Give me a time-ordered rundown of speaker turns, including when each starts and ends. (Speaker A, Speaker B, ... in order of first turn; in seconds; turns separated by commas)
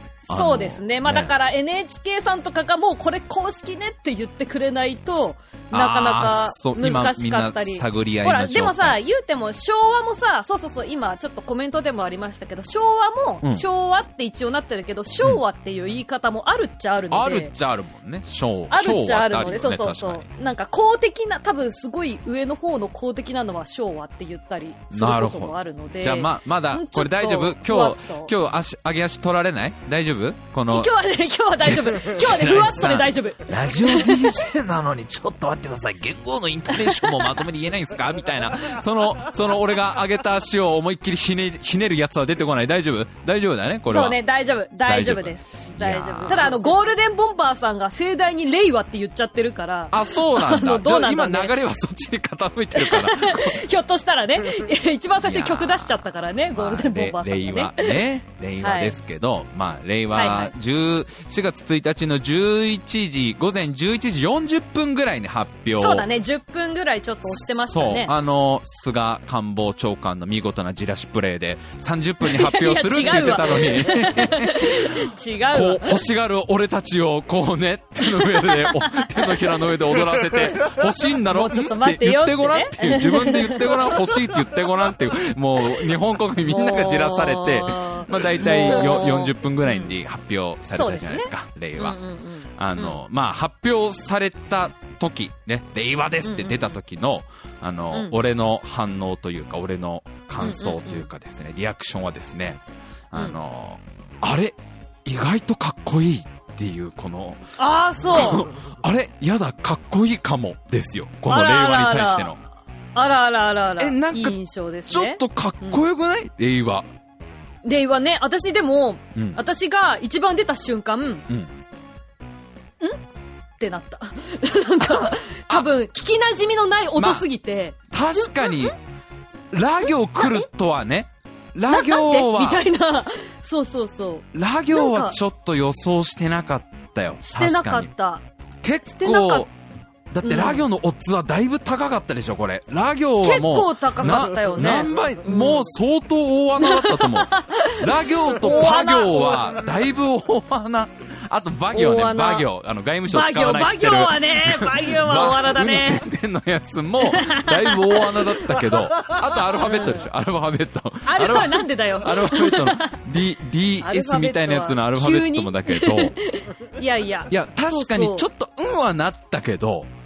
Speaker A: 0.2-17.5, Speaker B: 0.3-1.3, Speaker B: 5.7-9.0, Speaker B: 17.1-20.2, Speaker A: 18.7-28.3, Speaker B: 24.9-44.2, Speaker A: 30.7-34.4, Speaker A: 36.7-37.4, Speaker A: 43.9-51.5, Speaker B: 44.9-46.7, Speaker B: 49.9-53.6, Speaker A: 52.7-58.0, Speaker B: 55.2-56.0, Speaker B: 56.5-66.1, Speaker A: 58.6-59.0, Speaker A: 60.1-60.5, Speaker A: 65.8-68.2, Speaker B: 67.5-92.0, Speaker A: 72.2-76.0, Speaker A: 78.0-79.7, Speaker A: 81.3-84.2, Speaker A: 86.4-89.9, Speaker A: 90.7-93.0, Speaker B: 92.6-107.4, Speaker A: 96.2-96.8, Speaker A: 100.4-101.1, Speaker A: 107.6-108.5, Speaker B: 108.1-112.4, Speaker A: 111.3-112.3, Speaker A: 113.0-115.8, Speaker B: 113.8-116.9, Speaker A: 117.6-121.3, Speaker A: 123.6-128.7, Speaker B: 124.8-125.7, Speaker B: 127.0-127.3, Speaker B: 127.9-128.8, Speaker B: 129.5-132.7, Speaker A: 130.2-130.5, Speaker A: 131.7-135.2, Speaker B: 134.3-137.9, Speaker A: 137.2-138.2, Speaker B: 138.6-139.5, Speaker A: 138.8-139.5, Speaker B: 140.1-166.2, Speaker A: 140.2-140.7, Speaker A: 143.2-145.7, Speaker A: 146.6-149.6, Speaker A: 151.7-152.5, Speaker A: 153.1-156.0, Speaker A: 157.0-160.1, Speaker A: 161.1-163.0, Speaker A: 163.8-168.3, Speaker B: 167.3-169.9